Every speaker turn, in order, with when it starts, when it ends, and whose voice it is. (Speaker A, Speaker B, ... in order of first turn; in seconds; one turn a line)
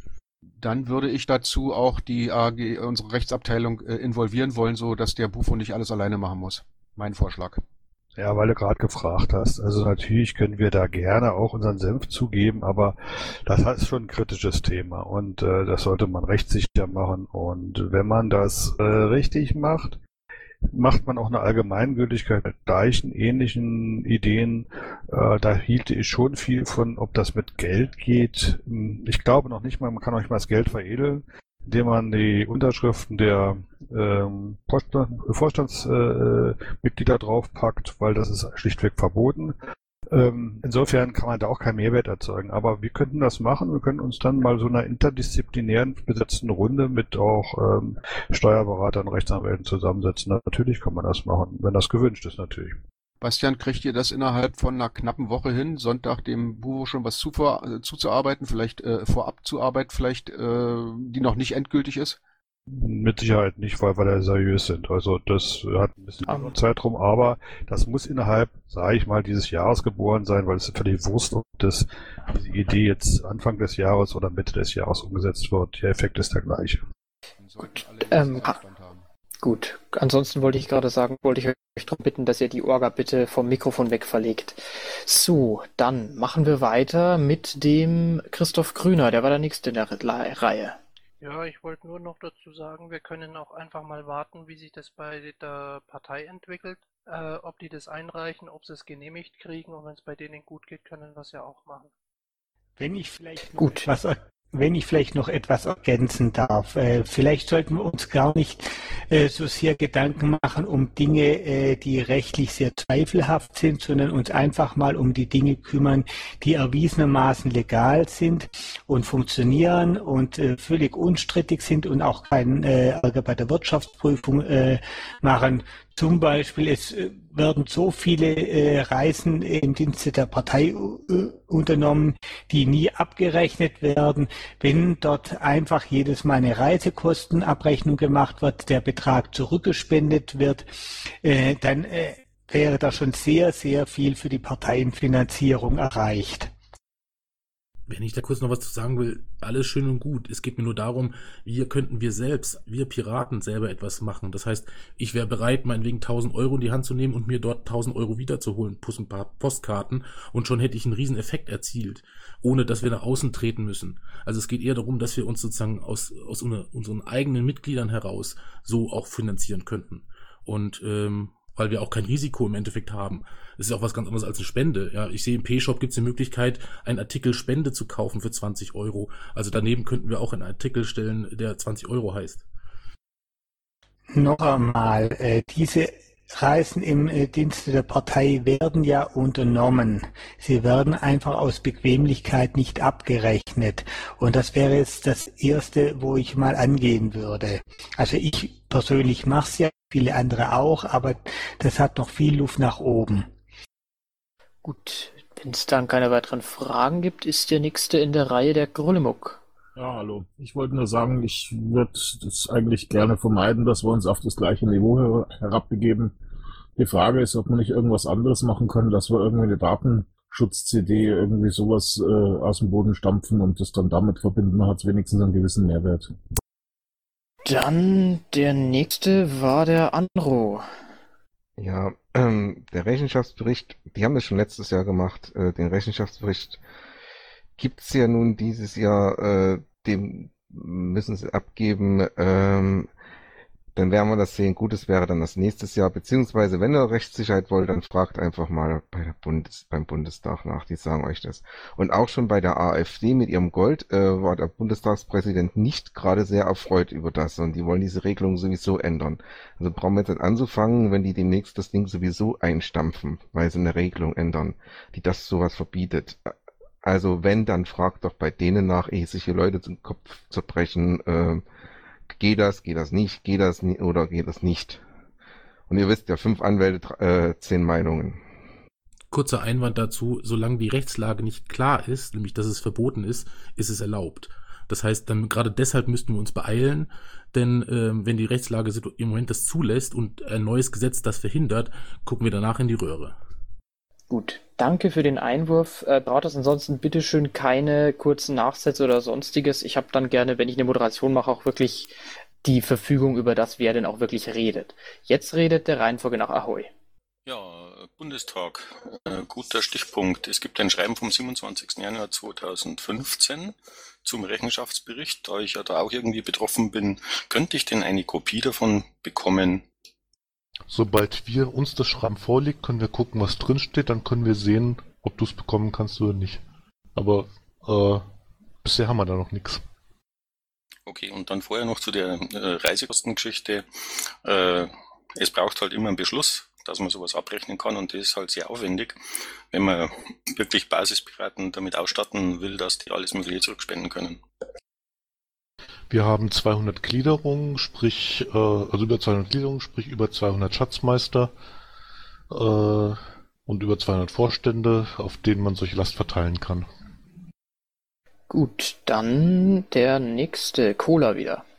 Speaker A: 0.6-7.6
Speaker B: 8.2-20.0
Speaker B: 20.7-39.6
Speaker B: 40.1-52.8
Speaker A: 53.2-62.2
Speaker B: 62.7-76.8
Speaker C: 66.2-66.6
Speaker A: 77.4-79.0
Speaker C: 77.6-78.6
Speaker C: 79.4-90.8
Speaker D: 91.2-101.9
Speaker E: 102.8-140.7
Speaker C: 103.6-103.9
Speaker E: 141.2-146.5
Speaker F: 147.9-182.5
Speaker E: 184.1-203.3
Speaker C: 204.6-209.4
Speaker G: 209.8-216.1
Speaker G: 216.8-226.2
Speaker C: 227.5-230.7
Speaker H: 231.6-236.6
Speaker H: 237.6-242.9
Speaker H: 243.8-266.3
Speaker H: 266.8-271.4
Speaker H: 272.1-274.8
Speaker H: 275.7-278.2
Speaker F: 279.1-293.2
Speaker C: 294.1-306.7
Speaker I: 307.3-319.6
Speaker J: 320.7-326.4
Speaker J: 327.0-328.1
Speaker J: 328.6-329.6
Speaker I: 330.9-333.7
Speaker I: 334.2-339.0
Speaker I: 339.5-344.2
Speaker J: 345.9-351.3
Speaker J: 352.3-356.7
Speaker C: 358.3-361.4